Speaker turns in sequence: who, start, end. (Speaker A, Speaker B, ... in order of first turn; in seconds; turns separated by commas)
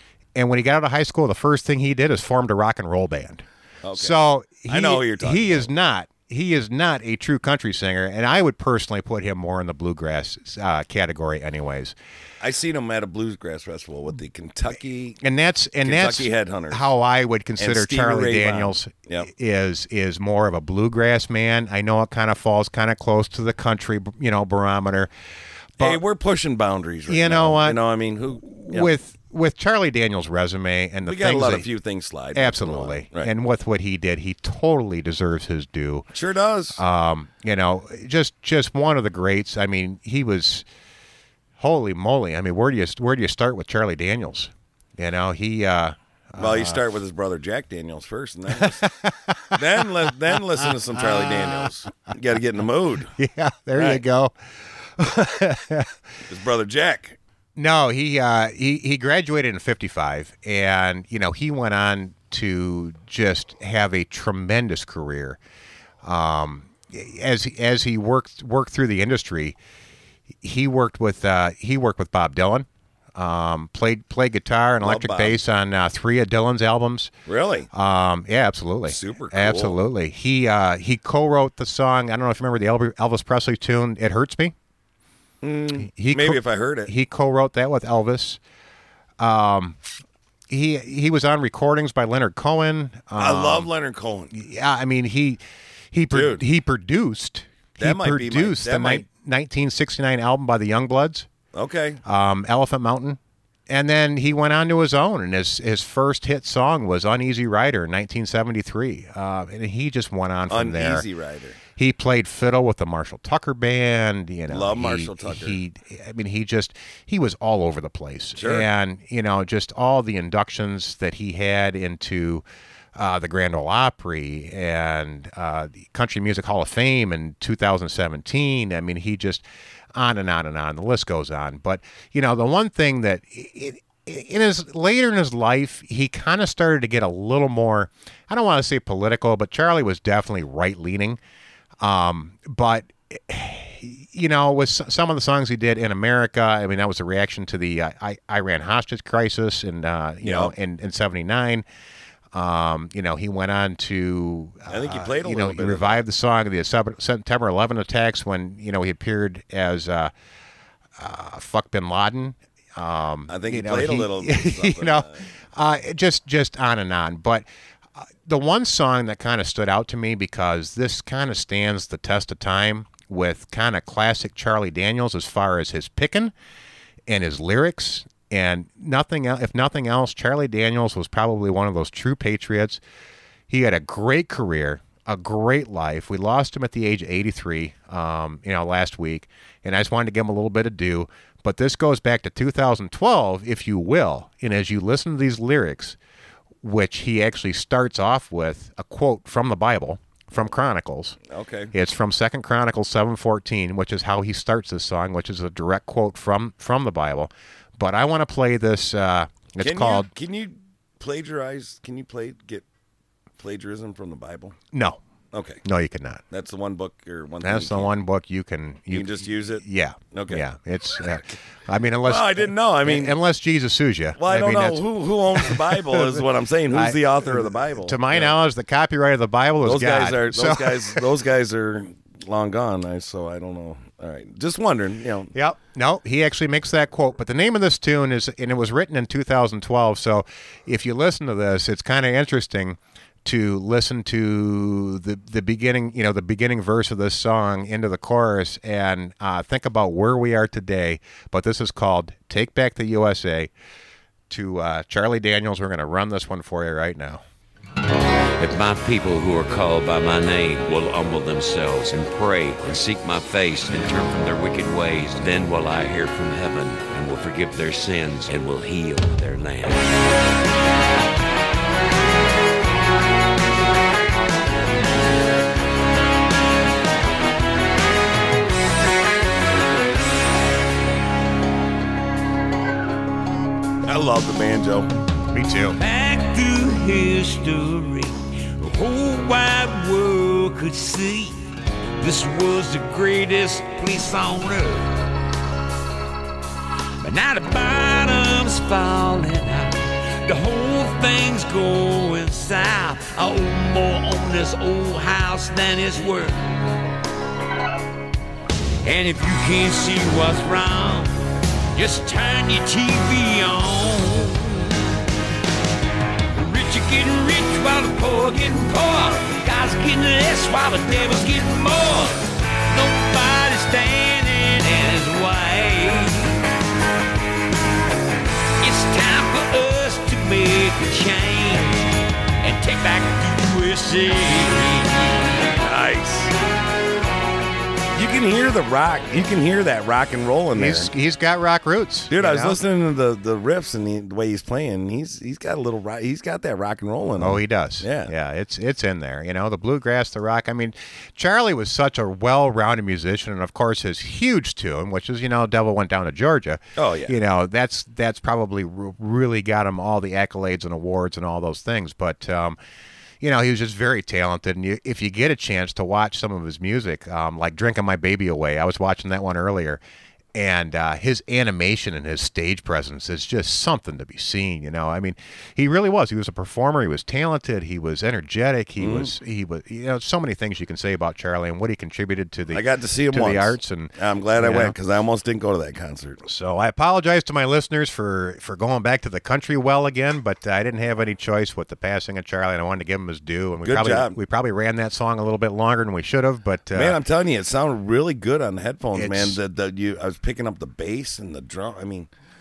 Speaker A: 0.3-11.9, Speaker B: 3.8-5.7, Speaker B: 12.4-15.2, Speaker A: 15.2-25.1, Speaker B: 15.8-16.8, Speaker B: 17.6-19.3, Speaker B: 25.8-28.9, Speaker A: 27.1-27.8, Speaker A: 28.4-31.7, Speaker B: 31.0-33.3, Speaker A: 32.3-36.1, Speaker B: 36.1-36.8, Speaker A: 36.8-40.6, Speaker A: 41.6-46.8, Speaker B: 46.4-48.9, Speaker A: 48.6-49.6, Speaker B: 49.5-53.1, Speaker A: 53.2-54.3, Speaker B: 53.7-54.0, Speaker A: 55.0-55.9, Speaker B: 56.3-57.2, Speaker A: 57.5-65.4, Speaker A: 66.0-69.5, Speaker A: 70.4-77.1, Speaker B: 74.8-75.4, Speaker B: 77.2-77.7, Speaker A: 77.7-84.5, Speaker B: 78.8-79.8, Speaker B: 85.4-86.9, Speaker A: 85.9-88.4, Speaker A: 89.2-89.8, Speaker A: 90.5-93.7, Speaker B: 93.2-94.3, Speaker A: 94.3-95.4, Speaker A: 95.9-101.3, Speaker B: 96.1-96.4, Speaker B: 97.8-99.0, Speaker B: 101.5-102.0, Speaker A: 102.0-111.0, Speaker B: 110.5-111.6, Speaker A: 111.8-122.4, Speaker B: 114.5-115.6, Speaker B: 118.3-118.7, Speaker A: 123.0-141.2, Speaker A: 141.8-151.6, Speaker B: 150.2-150.5, Speaker A: 152.3-160.1, Speaker B: 154.7-156.0, Speaker A: 161.0-167.4, Speaker B: 163.3-165.2, Speaker A: 168.2-176.3, Speaker A: 177.1-182.8, Speaker A: 183.5-196.0, Speaker A: 196.6-201.2, Speaker B: 201.3-201.7, Speaker A: 201.7-210.1, Speaker B: 209.6-212.6, Speaker B: 213.4-214.6, Speaker A: 214.7-215.0, Speaker B: 215.3-215.6, Speaker A: 215.6-216.2, Speaker B: 216.3-217.9, Speaker A: 217.4-231.0, Speaker B: 218.9-220.4, Speaker B: 222.0-223.2, Speaker B: 224.2-228.3, Speaker B: 229.6-235.3, Speaker A: 235.3-253.5, Speaker A: 254.3-257.2, Speaker C: 258.4-269.8, Speaker B: 283.8-284.9, Speaker A: 285.3-285.8, Speaker C: 285.8-291.4, Speaker C: 292.0-295.1, Speaker C: 297.0-306.5, Speaker C: 308.8-311.1, Speaker C: 311.7-314.8, Speaker C: 316.3-326.4, Speaker C: 328.6-335.1, Speaker B: 335.6-336.3, Speaker B: 337.9-340.9, Speaker A: 340.5-342.6, Speaker B: 342.1-348.1, Speaker A: 347.2-362.6, Speaker B: 356.8-357.1, Speaker A: 363.2-369.8, Speaker A: 370.3-384.7, Speaker B: 378.8-379.1, Speaker B: 382.5-386.2, Speaker A: 386.2-397.0, Speaker B: 393.6-394.2, Speaker B: 396.7-402.1, Speaker A: 398.9-399.4